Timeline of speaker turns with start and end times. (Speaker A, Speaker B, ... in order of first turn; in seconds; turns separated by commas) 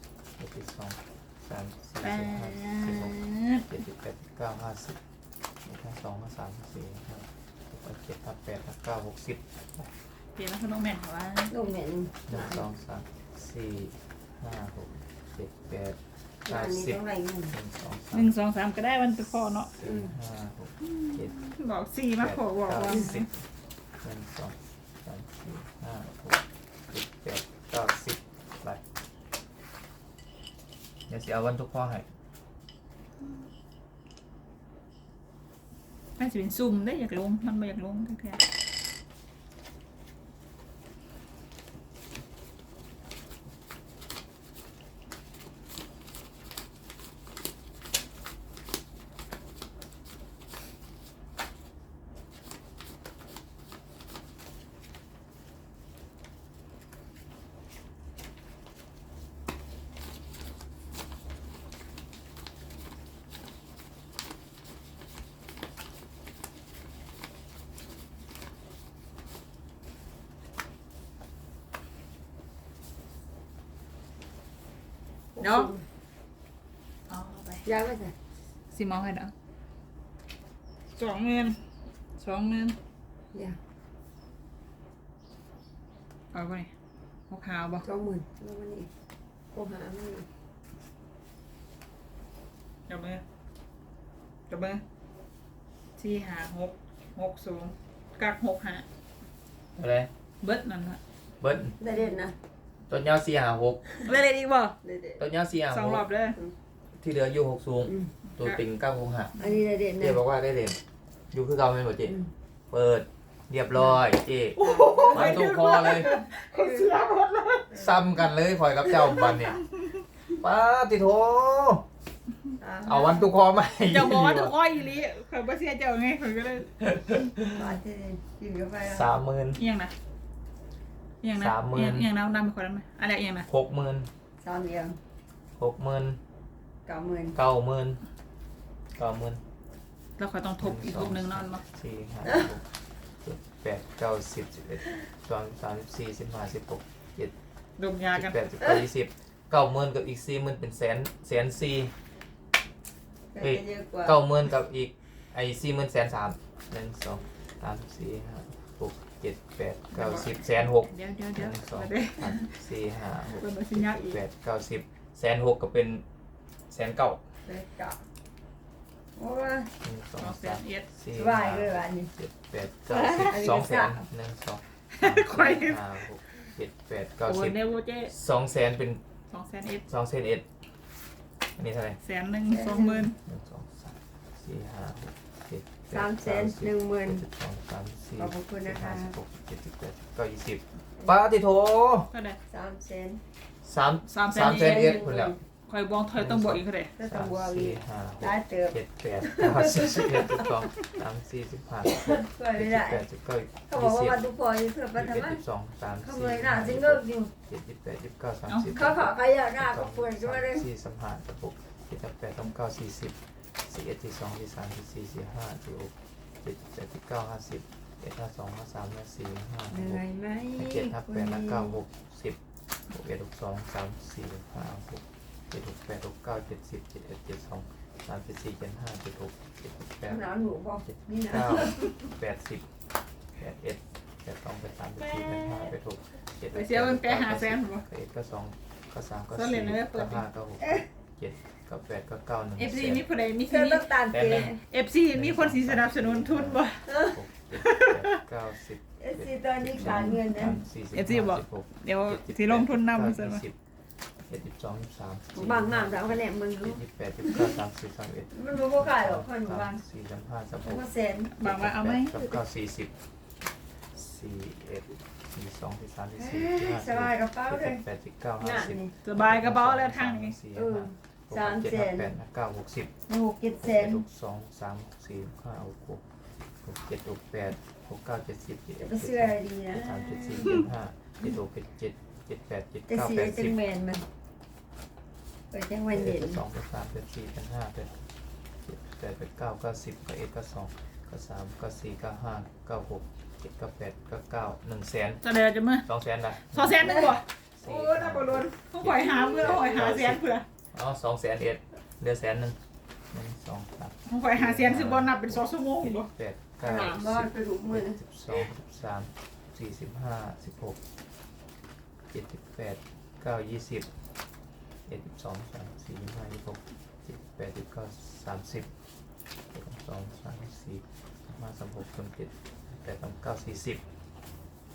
Speaker A: 0.4-5.0, Speaker B: 2.0-3.6, Speaker A: 5.6-9.9, Speaker B: 10.3-11.5, Speaker C: 11.5-12.6, Speaker A: 12.3-18.3, Speaker C: 16.4-17.5, Speaker B: 18.1-19.7, Speaker A: 19.7-21.3, Speaker C: 19.8-20.1, Speaker B: 20.8-23.3, Speaker A: 22.2-23.4, Speaker A: 24.0-28.8, Speaker A: 31.1-32.0, Speaker B: 36.2-38.4, Speaker C: 75.3-75.8, Speaker B: 75.4-75.7, Speaker B: 77.1-77.7, Speaker C: 77.6-78.1, Speaker B: 78.7-79.3, Speaker B: 80.9-81.6, Speaker B: 82.2-82.8, Speaker B: 86.3-86.7, Speaker B: 87.3-87.8, Speaker C: 87.8-88.9, Speaker C: 89.5-90.3, Speaker B: 92.9-93.2, Speaker B: 94.5-94.8, Speaker B: 96.0-98.8, Speaker A: 99.8-100.1, Speaker B: 100.4-101.0, Speaker A: 101.4-101.8, Speaker C: 101.8-102.3, Speaker A: 102.9-103.8, Speaker B: 104.0-104.8, Speaker C: 104.8-105.2, Speaker A: 105.2-106.0, Speaker B: 105.7-106.4, Speaker A: 107.0-109.3, Speaker C: 107.8-108.1, Speaker B: 108.4-108.6, Speaker C: 109.4-110.2, Speaker A: 110.0-110.8, Speaker A: 111.3-112.1, Speaker A: 112.7-116.1, Speaker B: 114.5-117.7, Speaker C: 114.6-116.9, Speaker A: 117.7-119.6, Speaker B: 118.9-119.5, Speaker A: 120.4-121.8, Speaker C: 122.6-123.3, Speaker A: 122.8-124.5, Speaker B: 123.8-126.8, Speaker A: 126.8-127.6, Speaker C: 127.5-129.1, Speaker A: 128.9-129.6, Speaker B: 129.6-129.9, Speaker B: 131.2-133.5, Speaker A: 131.4-132.1, Speaker A: 133.5-134.1, Speaker C: 134.4-135.0, Speaker A: 135.6-136.2, Speaker C: 136.9-137.4, Speaker A: 137.3-138.0, Speaker A: 138.9-139.4, Speaker B: 140.2-141.6, Speaker A: 140.6-142.7, Speaker A: 143.2-147.3, Speaker B: 147.8-148.3, Speaker A: 148.1-151.9, Speaker C: 153.3-154.2, Speaker A: 153.4-166.0, Speaker B: 159.9-162.6, Speaker B: 163.2-164.2, Speaker A: 166.7-167.2, Speaker C: 167.4-168.0, Speaker C: 169.2-169.7, Speaker A: 169.8-179.0, Speaker B: 170.2-170.9, Speaker C: 171.1-172.1, Speaker C: 172.9-174.0, Speaker B: 174.9-175.9, Speaker B: 177.2-178.1, Speaker B: 179.3-179.8, Speaker A: 179.9-180.4, Speaker A: 181.6-182.0, Speaker B: 182.0-183.2, Speaker C: 182.5-183.1, Speaker A: 183.2-192.1, Speaker C: 185.9-187.2, Speaker C: 188.2-189.2, Speaker B: 192.1-192.4, Speaker C: 192.5-193.2, Speaker A: 193.6-195.3, Speaker B: 194.1-195.0, Speaker C: 194.4-195.4, Speaker B: 195.7-196.9, Speaker A: 196.2-204.2, Speaker C: 197.0-200.5, Speaker C: 201.9-203.0, Speaker C: 203.7-205.4, Speaker A: 204.9-220.0, Speaker C: 206.0-207.3, Speaker B: 208.5-208.8, Speaker C: 208.7-210.6, Speaker C: 219.7-221.8, Speaker A: 220.6-230.2, Speaker C: 230.1-231.8, Speaker A: 230.8-232.7, Speaker A: 233.4-243.0, Speaker B: 235.0-235.7, Speaker B: 236.5-237.8, Speaker B: 239.3-240.2, Speaker B: 242.6-243.9, Speaker C: 243.5-244.6, Speaker A: 244.1-244.5, Speaker B: 244.6-246.9, Speaker A: 245.1-253.5, Speaker C: 246.9-247.2, Speaker B: 247.5-248.2, Speaker C: 249.0-250.6, Speaker B: 249.8-250.2, Speaker B: 250.9-253.4, Speaker A: 254.3-260.8, Speaker C: 255.3-257.6, Speaker C: 258.3-259.8, Speaker C: 260.6-261.3, Speaker B: 261.4-262.4, Speaker A: 261.4-262.9, Speaker A: 263.9-272.9, Speaker C: 266.2-267.8, Speaker C: 268.4-268.9, Speaker B: 269.0-270.4, Speaker C: 270.5-272.1, Speaker C: 273.1-274.0, Speaker A: 273.6-276.0, Speaker A: 276.6-283.5, Speaker C: 278.8-280.6, Speaker C: 282.9-284.0, Speaker C: 285.5-286.4, Speaker A: 285.9-288.0, Speaker A: 288.6-295.2, Speaker B: 295.2-295.9, Speaker A: 295.9-302.6, Speaker B: 296.4-300.4, Speaker A: 303.1-310.8, Speaker B: 304.1-306.1, Speaker C: 306.6-308.0, Speaker A: 312.1-313.9, Speaker A: 314.9-318.7, Speaker A: 319.5-323.8